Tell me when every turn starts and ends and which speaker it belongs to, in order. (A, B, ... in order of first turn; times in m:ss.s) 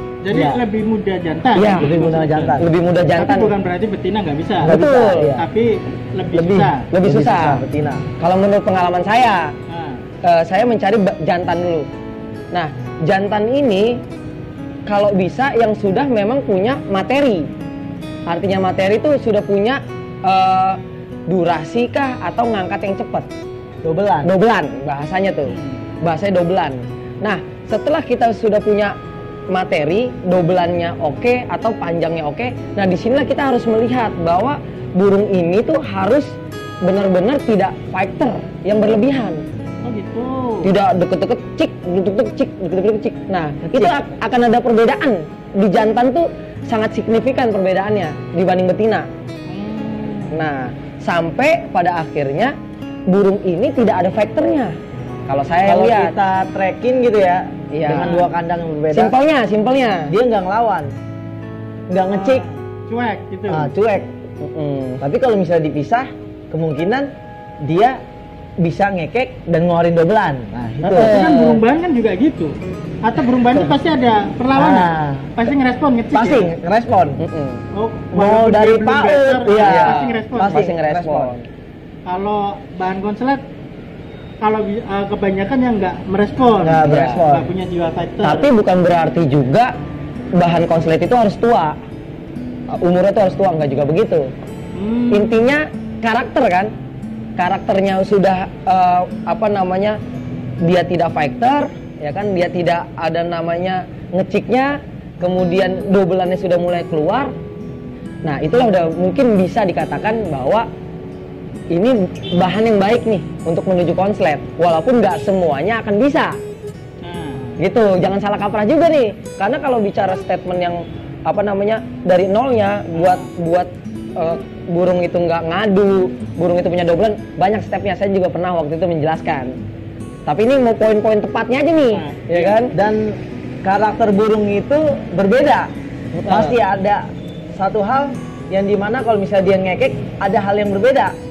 0:00.2-0:02.6 A
0:00.3-0:00.6 B
0:01.6-0:01.9 C
0:01.6-0:02.7 B
0:02.6-0:03.5 C
0:03.2-0:04.8 A
0:04.6-0:05.5 B
0:04.6-0:05.4 C
0:05.3-0:06.9 A
0:06.4-0:08.1 B
0:06.9-0:07.6 C
0:08.2-0:09.5 C
0:09.7-0:10.0 A
0:10.2-0:11.9 C
0:12.5-0:14.0 C
0:14.9-0:17.5 C
0:18.3-0:23.3 C
0:23.8-0:24.3 B
0:24.2-0:28.9 C
0:25.5-0:25.8 A
0:29.5-0:39.4 C
0:39.8-0:40.7 A
0:40.6-0:49.1 C
0:43.6-0:44.0 B
0:49.5-0:50.4 A
0:50.3-0:52.5 C
0:53.1-0:54.7 C
0:55.3-0:56.2 C
0:55.6-0:59.2 B
0:57.7-0:58.2 C
0:57.9-0:58.3 A
0:58.9-1:00.1 C
1:00.1-1:00.9 B
1:01.9-1:02.4 B
1:02.1-1:03.7 A
1:03.5-1:04.1 B
1:04.4-1:05.0 C
1:05.0-1:07.1 B
1:07.6-1:08.0 B
1:08.6-1:11.3 B
1:10.8-1:11.6 C
1:11.0-1:16.5 A
1:14.6-1:15.4 B
1:16.1-1:17.2 B
1:17.2-1:17.6 C
1:17.7-1:20.6 A
1:18.1-1:21.4 B
1:19.6-1:21.5 C
1:22.1-1:23.4 A
1:24.4-1:28.5 A
1:26.6-1:27.5 B
1:26.8-1:27.3 C
1:28.2-1:29.7 C
1:30.4-1:31.8 C
1:32.7-1:34.3 C
1:34.8-1:35.4 A
1:35.1-1:36.7 C
1:37.4-1:40.0 C
1:40.6-1:47.3 C
1:48.2-1:50.7 C
1:51.7-1:56.4 C
1:57.0-1:57.6 A
1:57.6-2:09.6 C
2:02.9-2:03.3 A
2:10.3-2:12.7 C
2:11.9-2:12.6 A
2:12.7-2:15.7 B
2:16.2-2:16.6 C
2:16.3-2:21.1 B